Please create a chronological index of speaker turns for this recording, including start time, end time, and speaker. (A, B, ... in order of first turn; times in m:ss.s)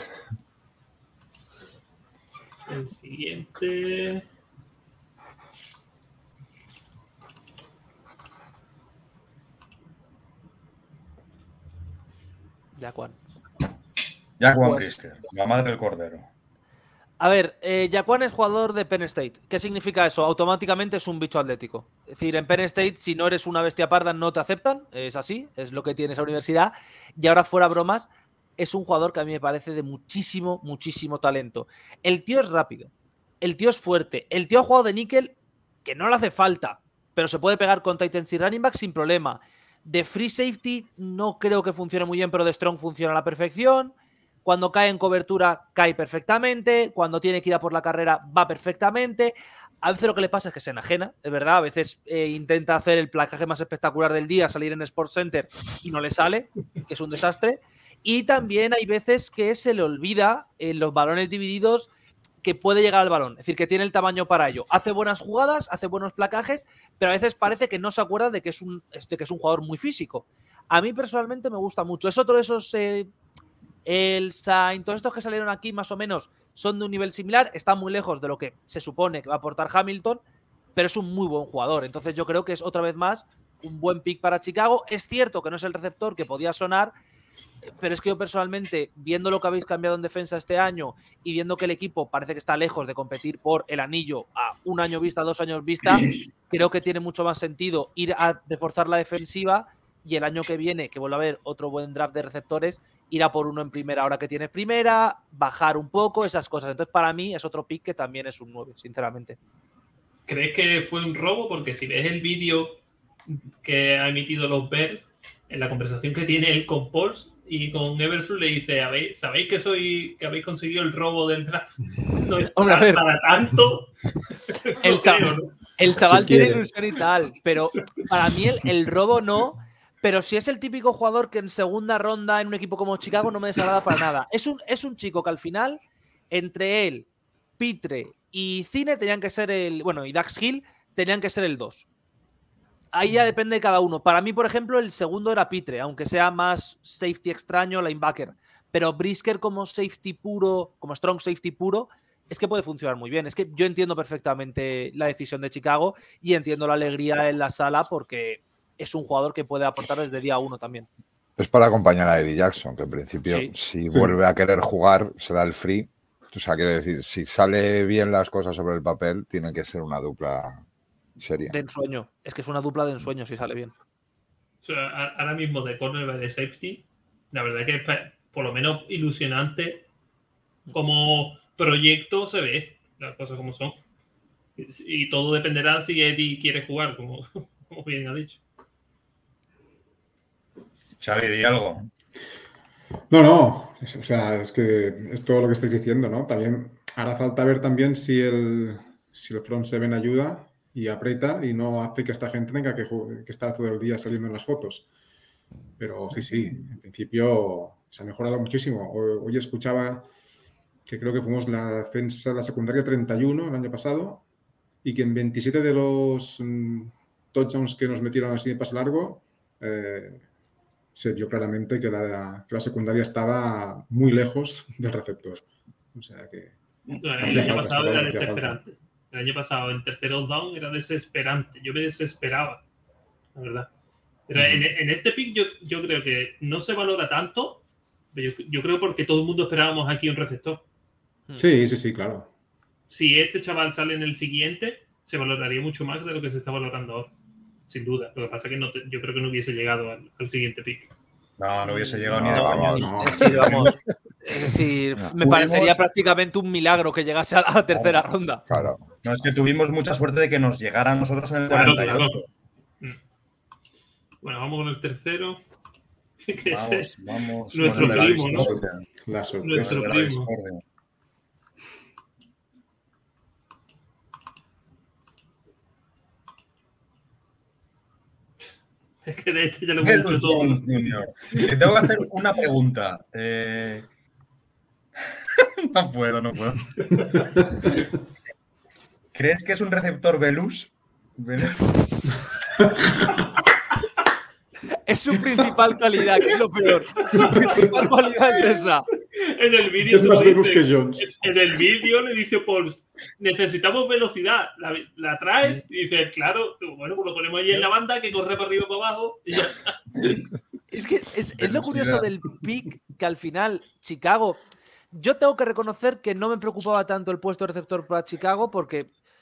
0:02.7-0:04.2 A
0:12.8-0:13.2 B
0:14.4-0:16.3 C
0:14.6-0:15.0 B
0:17.2-0:35.3 B
0:35.8-0:43.9 B
0:44.4-1:01.9 B
1:02.4-1:13.1 B
1:13.9-1:20.2 B
1:20.8-1:26.9 B
1:27.8-1:49.4 B
1:50.3-2:05.6 A
2:02.4-2:03.0 B
2:04.8-2:17.1 B
2:06.1-2:06.6 D
2:17.6-2:21.8 B
2:22.9-2:40.9 B
2:41.4-2:50.6 D
2:51.2-2:51.6 D
2:51.5-2:53.7 B
2:54.6-2:59.8 A
3:00.7-3:03.8 A
3:04.6-3:08.4 A
3:11.0-3:11.9 C
3:13.1-3:24.9 E
3:25.8-3:30.1 E
3:30.9-3:34.2 E
3:34.8-3:40.2 E
3:41.0-3:46.6 E
3:47.0-3:52.6 A
3:47.2-3:48.6 E
3:53.4-3:53.7 A
3:54.3-3:57.6 A
3:58.1-4:00.6 A
4:01.4-4:02.3 E
4:02.9-4:07.1 A
4:07.7-4:10.9 A
4:11.4-4:13.8 C
4:12.1-4:13.6 E
4:12.2-4:13.4 D
4:13.0-4:13.7 B
4:14.2-4:18.4 B
4:15.2-4:15.8 C
4:17.7-4:18.0 C
4:18.5-4:19.0 D
4:19.0-4:22.3 C
4:21.5-4:22.2 A
4:24.2-4:25.4 A
4:26.2-4:26.9 A
4:26.5-4:28.8 C
4:27.5-4:28.6 A
4:27.7-4:29.8 E
4:29.4-4:30.3 A
4:29.5-4:30.6 C
4:39.0-4:42.0 A
4:39.8-4:43.9 C
4:45.4-4:46.8 C
4:49.2-4:51.7 C
4:54.9-4:58.9 B
4:57.1-4:57.6 A
4:57.3-4:57.7 E
4:59.2-5:10.2 A
4:59.8-5:01.3 E
5:10.7-5:14.4 B
5:11.4-5:12.1 C
5:14.9-5:18.9 B